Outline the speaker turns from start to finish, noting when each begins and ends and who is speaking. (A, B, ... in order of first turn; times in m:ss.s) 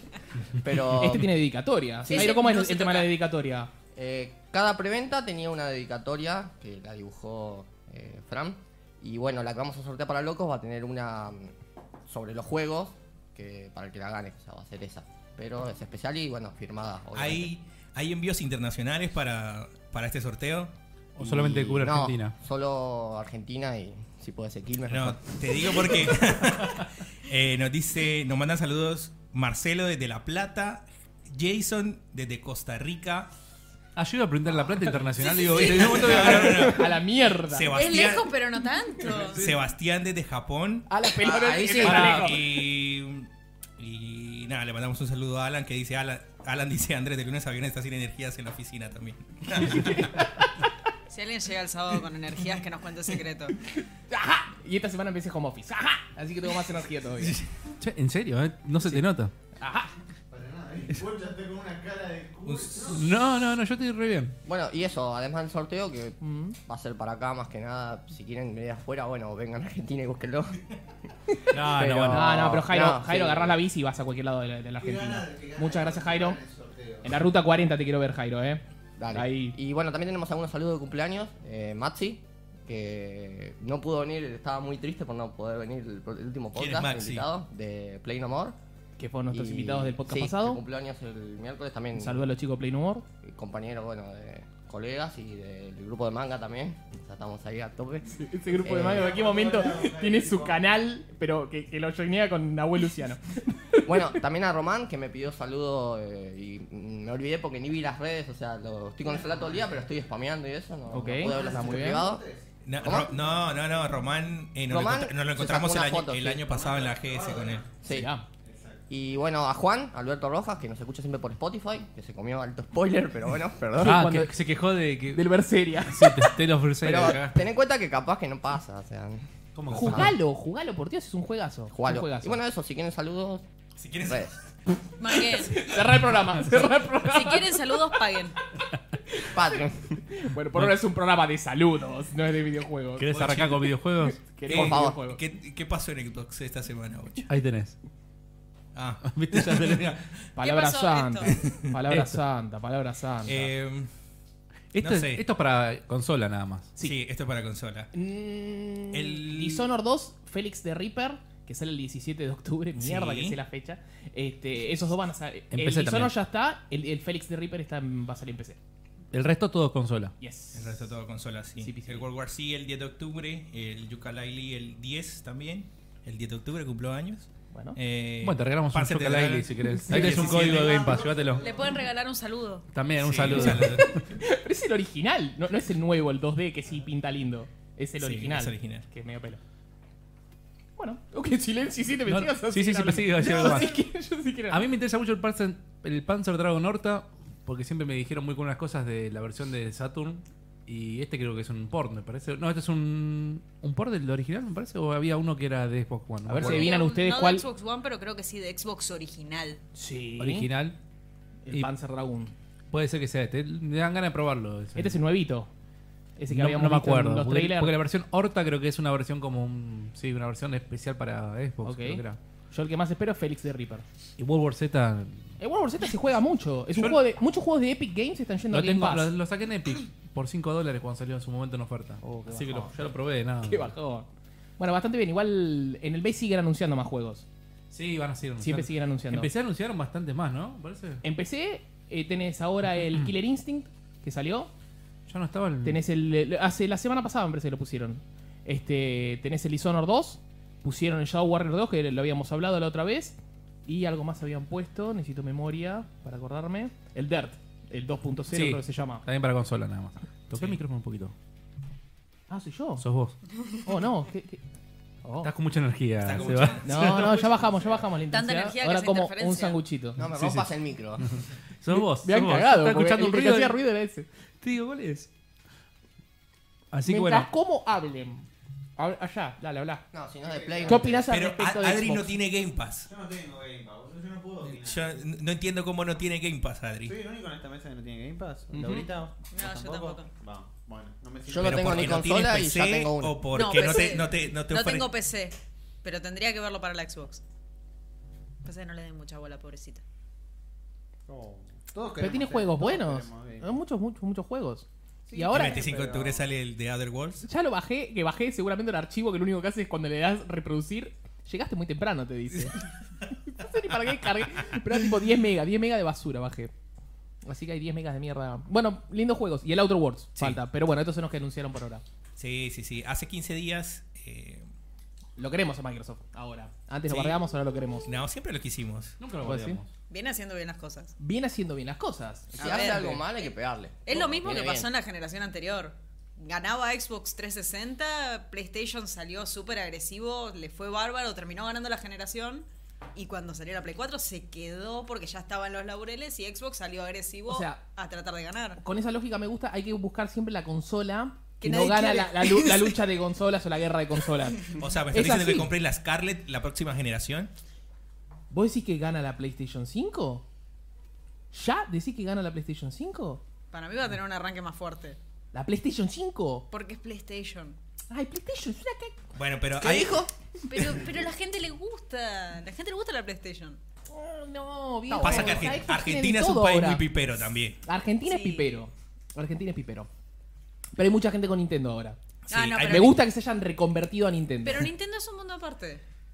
0:00.6-0:01.3 A
0:00.9-0:03.7 B
0:02.0-0:02.4 A
0:02.1-0:03.1 C
0:04.0-0:11.5 A
0:12.1-0:17.5 A
0:17.2-0:20.7 D
0:21.2-0:22.3 E
0:21.2-0:26.3 A
0:24.9-0:33.3 D
0:34.0-0:36.8 E
0:35.2-0:38.3 D
0:35.9-0:38.1 B
0:37.7-0:39.4 C
0:39.1-0:50.4 D
0:40.9-0:42.4 B
0:41.2-0:42.4 A
0:41.8-0:42.2 E
0:49.6-0:50.7 B
0:51.1-0:53.6 C
0:54.0-0:57.4 B
0:57.2-0:57.6 D
0:57.8-0:59.3 E
0:59.6-0:59.9 B
1:00.3-1:03.2 F
1:02.4-1:02.9 D
1:02.9-1:04.4 E
1:04.4-1:10.6 A
1:06.2-1:06.6 B
1:11.5-1:12.5 E
1:11.5-1:13.6 A
1:12.1-1:16.4 B
1:14.8-1:17.2 F
1:17.0-1:19.6 B
1:19.0-1:28.6 A
1:26.6-1:27.3 D
1:29.0-1:30.6 B
1:29.3-1:32.2 A
1:32.0-1:33.0 B
1:33.2-1:38.1 A
1:38.1-1:44.2 B
1:38.5-1:40.6 F
1:38.6-1:39.2 A
1:43.8-1:52.2 A
1:49.0-1:49.8 F
1:50.9-1:52.0 B
1:51.2-1:54.1 F
1:52.6-1:57.7 D
1:52.8-1:53.2 A
1:54.7-1:56.4 A
1:56.4-1:57.8 F
1:57.8-1:58.1 A
1:57.9-1:58.3 B
1:58.4-1:58.9 F
1:58.9-2:04.0 A
2:03.8-2:04.4 B
2:03.8-2:05.3 E
2:05.1-2:06.4 B
2:05.9-2:07.4 E
2:06.8-2:10.1 A
2:09.6-2:10.1 F
2:09.7-2:12.4 B
2:11.7-2:13.4 A
2:13.8-2:14.3 D
2:14.1-2:14.3 A
2:15.0-2:15.6 C
2:15.5-2:18.0 B
2:17.0-2:18.4 C
2:19.2-2:20.0 A
2:20.1-2:25.2 B
2:23.0-2:24.3 E
2:24.5-2:27.3 D
2:24.5-2:25.0 A
2:27.3-2:27.8 E
2:28.7-2:30.2 D
2:29.0-2:29.9 E
2:30.4-2:33.5 B
2:30.4-2:31.4 C
2:31.3-2:31.7 D
2:31.9-2:32.2 E
2:33.2-2:33.9 D
2:34.7-2:36.8 E
2:34.8-2:35.2 D
2:36.8-2:37.9 D
2:37.9-2:48.6 B
2:38.9-2:39.7 D
2:42.8-2:43.4 D
2:45.5-2:46.1 E
2:49.1-2:50.1 E
2:50.2-2:50.9 B
2:50.6-3:01.0 D
2:51.6-2:52.1 B
2:57.5-2:57.8 B
2:58.2-3:01.4 E
2:59.7-3:00.4 B
3:00.0-3:01.8 F
3:01.4-3:02.7 C
3:02.7-3:04.0 E
3:03.0-3:03.9 D
3:03.3-3:09.4 B
3:08.0-3:08.8 D
3:10.8-3:14.7 B
3:12.1-3:13.8 E
3:14.5-3:26.7 E
3:26.3-3:27.4 B
3:26.4-3:29.6 C
3:29.8-3:30.5 B
3:30.2-3:30.8 E
3:31.5-3:32.3 B
3:32.7-3:35.0 E
3:34.8-3:35.5 B
3:36.2-3:37.8 B
3:36.3-3:42.2 E
3:41.6-3:43.8 B
3:44.2-3:45.2 E
3:45.4-3:49.1 B
3:48.5-3:53.7 E
3:52.0-3:52.7 B
3:53.4-3:54.1 B
3:54.6-3:57.3 B
3:57.7-4:01.0 E
3:58.4-3:59.3 B
4:01.0-4:04.5 B
4:02.8-4:03.1 E
4:05.1-4:05.8 E
4:05.6-4:19.0 B
4:18.3-4:21.1 E
4:20.3-4:20.6 D
4:22.3-4:22.8 B
4:22.8-4:23.1 E
4:23.6-4:24.4 B
4:25.0-4:25.3 B
4:25.2-4:26.8 E
4:26.0-4:27.2 D
4:26.6-4:30.0 B
4:26.8-4:27.8 F
4:28.1-4:29.6 C
4:30.0-4:31.0 A
4:30.1-4:30.5 E
4:31.0-4:33.6 E
4:31.7-4:34.1 B
4:34.4-4:35.1 E
4:36.7-4:37.3 E
4:36.9-4:39.8 B
4:39.9-4:41.1 A
4:40.2-4:41.1 F
4:40.7-4:42.2 B
4:41.1-4:42.9 D
4:42.9-4:45.0 F
4:44.4-4:47.0 D
4:46.8-4:52.2 F
4:48.5-4:48.9 B
4:49.3-4:50.1 C
4:51.3-4:53.5 A
4:51.4-4:54.9 D
4:53.3-4:57.2 C
4:58.4-4:59.8 C
5:01.1-5:03.6 F
5:02.0-5:05.7 B
5:05.1-5:06.3 F
5:05.3-5:07.2 D
5:07.2-5:12.6 B
5:13.2-5:16.5 B
5:17.2-5:21.8 B
5:22.2-5:24.5 D
5:25.2-5:27.9 B
5:26.9-5:27.2 D
5:27.9-5:29.0 D
5:29.0-5:29.7 E
5:29.2-5:29.6 B
5:29.9-5:30.9 C
5:31.0-5:32.5 B
5:32.4-5:34.7 A
5:32.4-5:33.0 C
5:33.9-5:48.6 C
5:47.3-5:47.6 B
5:48.6-5:55.5 B
5:51.4-5:52.8 C
5:54.6-5:57.3 D
5:58.3-6:00.2 B
6:01.3-6:03.2 B
6:03.5-6:05.0 C
6:05.3-6:06.4 B
6:06.5-6:07.6 C
6:07.9-6:09.0 B
6:09.2-6:10.0 D
6:09.6-6:10.1 A
6:10.5-6:13.6 C
6:13.9-6:16.8 B
6:14.9-6:15.4 C
6:15.0-6:17.6 D
6:17.6-6:19.9 B
6:18.1-6:18.5 C
6:20.8-6:22.0 B
6:22.3-6:23.0 D
6:22.3-6:23.0 C
6:22.7-6:24.7 B
6:24.4-6:25.8 C